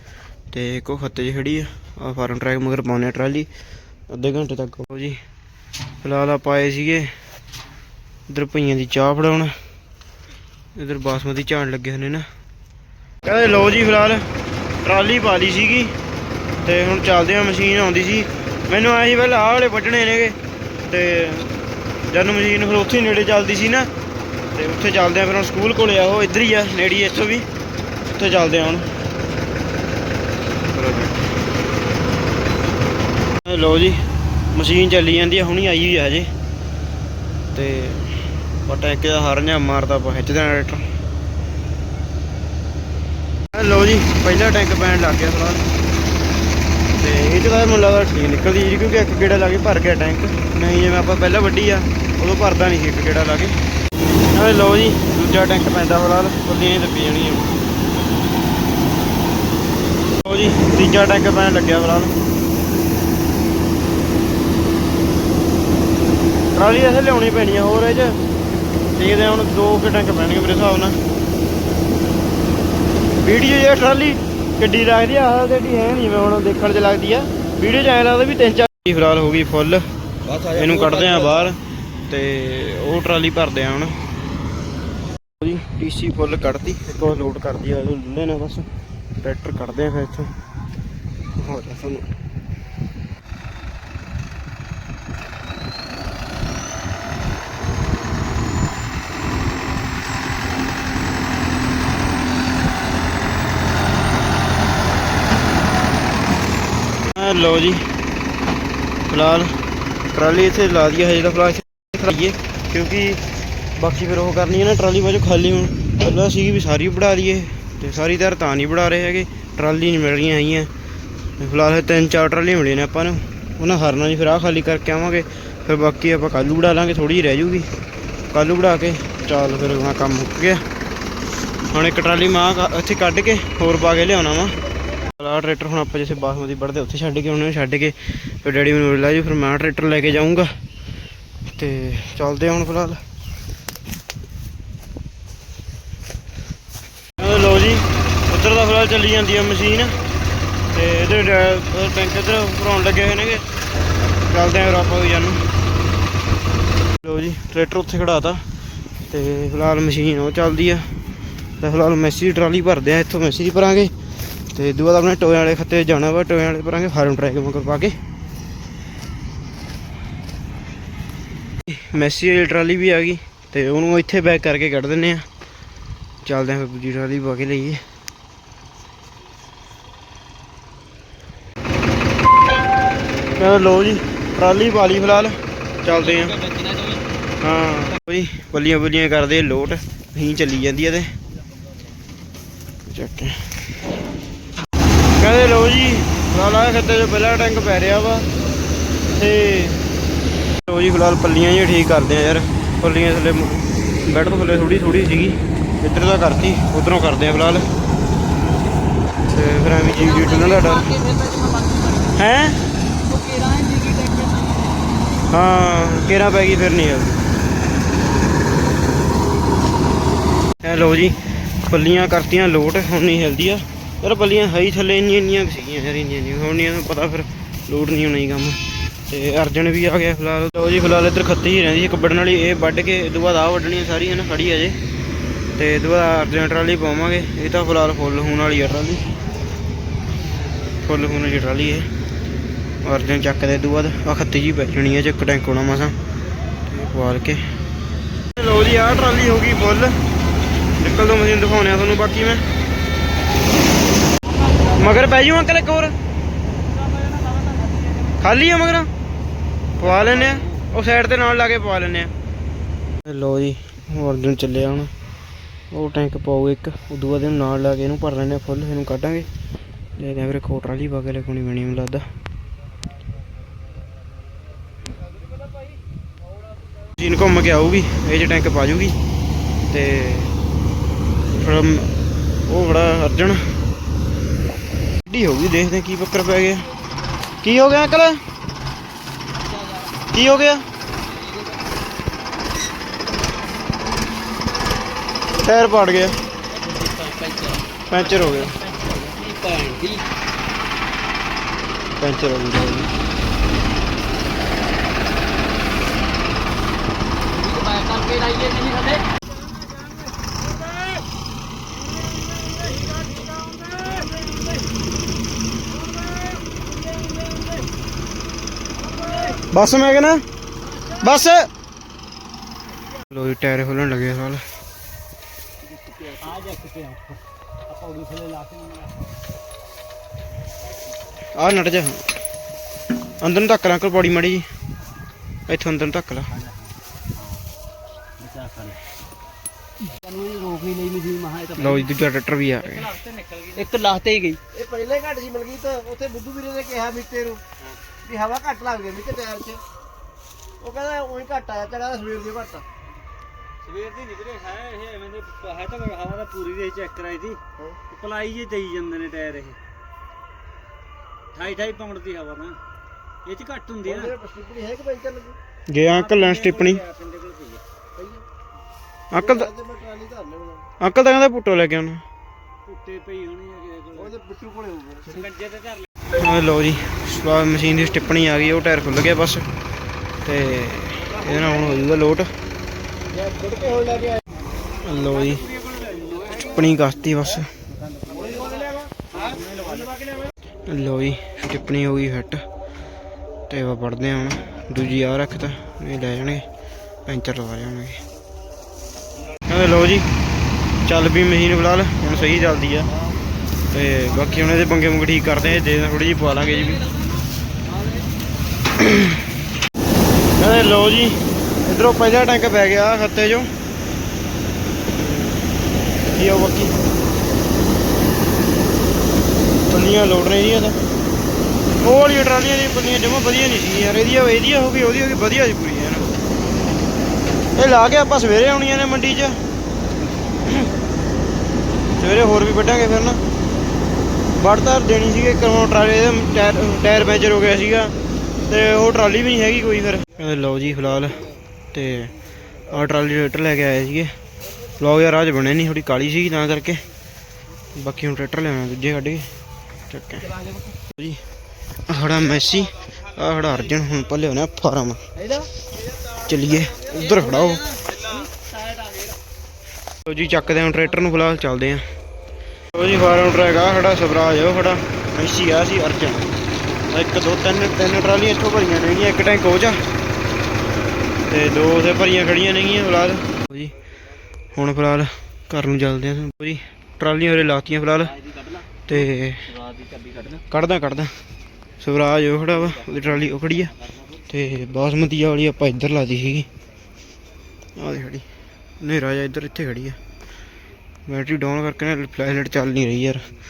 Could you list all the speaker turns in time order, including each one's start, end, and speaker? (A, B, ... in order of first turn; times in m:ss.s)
0:00.5-0:03.5 A
0:04.1-0:05.2 A
0:06.0-0:07.1 A
0:08.3-0:09.6 A
0:10.8-0:12.3 A
0:13.2-0:14.3 A
0:14.8-0:15.9 A
0:16.6-0:21.5 A
0:22.1-0:23.9 A
0:24.5-0:27.5 A
0:28.1-0:28.9 A
0:30.7-0:31.3 A
0:33.4-0:36.3 A
0:37.5-0:40.8 A
0:43.5-0:45.7 A
0:47.0-0:53.6 A
0:54.3-0:57.6 A
1:00.2-1:02.1 A
1:06.5-1:08.2 A
1:08.9-1:11.0 A
1:13.2-1:19.8 A
1:20.4-1:24.0 A
1:25.4-1:30.3 A
1:31.3-1:32.1 A
1:47.1-1:47.9 A
1:49.1-1:49.5 A
1:50.1-1:53.2 A
1:53.8-2:00.7 A
2:01.4-2:07.7 A
2:08.3-2:10.6 A
2:11.7-2:14.6 A
2:15.1-2:20.5 A
2:21.5-2:23.0 A
2:27.2-2:30.0 A
2:30.7-2:33.4 A
2:34.1-2:35.4 A
2:37.0-2:38.4 A
2:39.1-2:40.9 A
2:41.6-2:43.9 A
2:44.5-2:48.0 A
2:51.7-2:55.3 A
2:56.2-2:57.8 A
3:03.4-3:06.5 A
3:07.4-3:11.1 A
3:12.9-3:13.6 A
3:15.2-3:18.3 A
3:19.1-3:19.8 A
3:20.6-3:27.7 A
3:29.3-3:31.0 A
3:30.2-3:32.1 B
3:32.1-3:32.6 A
3:33.1-3:34.8 B
3:35.3-3:37.2 A
3:40.6-3:54.8 A
3:55.6-3:59.0 A
4:00.8-4:01.9 A
4:02.8-4:06.0 A
4:06.7-4:07.4 A
4:08.3-4:10.0 A
4:10.8-4:12.4 A
4:14.6-4:16.0 A
4:17.0-4:18.0 B
4:18.2-4:18.9 A
4:19.8-4:22.1 A
4:23.0-4:24.9 A
4:25.7-4:29.3 A
4:30.0-4:32.1 A
4:37.0-4:39.0 A
4:39.7-4:40.4 A
4:41.3-4:43.5 A
4:45.1-4:46.7 A
4:47.4-4:48.2 A
4:49.5-4:49.8 B
4:50.1-4:50.7 A
4:55.4-4:56.2 A
4:56.7-4:57.6 B
4:57.9-4:58.6 A
4:58.7-5:00.0 B
5:02.0-5:02.9 A
5:07.4-5:09.0 B
5:17.1-5:17.5 B
5:19.5-5:20.2 A
5:20.9-5:21.5 A
5:23.1-5:24.4 A
5:26.0-5:28.9 B
5:31.4-5:32.1 A
5:33.2-5:34.5 A
5:35.5-5:36.3 A
5:38.2-5:38.8 B
5:40.0-5:41.6 C
5:40.1-5:41.5 B
5:41.6-5:43.0 A
5:43.1-5:44.4 B
5:43.4-5:47.4 C
5:48.0-5:49.6 C
5:50.6-5:52.6 C
5:53.6-5:59.6 B
6:01.3-6:02.6 B
6:03.2-6:04.2 B
6:04.1-6:05.4 C
6:05.7-6:06.8 A
6:05.9-6:07.6 B
6:09.1-6:09.6 A
6:09.7-6:10.6 C
6:10.8-6:12.0 A
6:12.6-6:14.2 B
6:14.2-6:15.1 C
6:15.1-6:15.9 B
6:16.1-6:19.5 A
6:20.2-6:22.3 A
6:23.3-6:24.1 C
6:24.8-6:25.5 A
6:26.3-6:27.5 A
6:29.2-6:29.9 B
6:30.7-6:32.4 A
6:33.5-6:36.4 A
6:37.0-6:38.0 A
6:39.5-6:40.1 A
6:40.8-6:42.9 A
6:43.7-6:46.9 A
6:48.8-6:49.3 A
6:50.4-6:53.5 A
6:54.9-6:55.5 A
6:56.1-6:56.8 A
6:59.7-7:00.8 A
7:01.8-7:06.2 A
7:07.6-7:09.4 A
7:12.0-7:13.2 A
7:14.4-7:18.0 A
7:18.5-7:24.1 A
7:24.8-7:26.8 A
7:27.8-7:29.3 A
7:29.9-7:30.4 A
7:30.9-7:31.2 A
7:31.9-7:35.0 A
7:36.1-7:37.8 A
7:38.0-7:39.1 B
7:40.0-7:41.8 A
7:42.7-7:49.8 A
7:51.3-7:53.7 A
7:54.5-7:58.3 A
7:58.8-7:59.6 A
7:59.8-8:00.2 B
8:00.3-8:01.2 A
8:01.8-8:06.5 A
8:07.8-8:08.3 A
8:08.8-8:10.0 A
8:11.1-8:13.3 A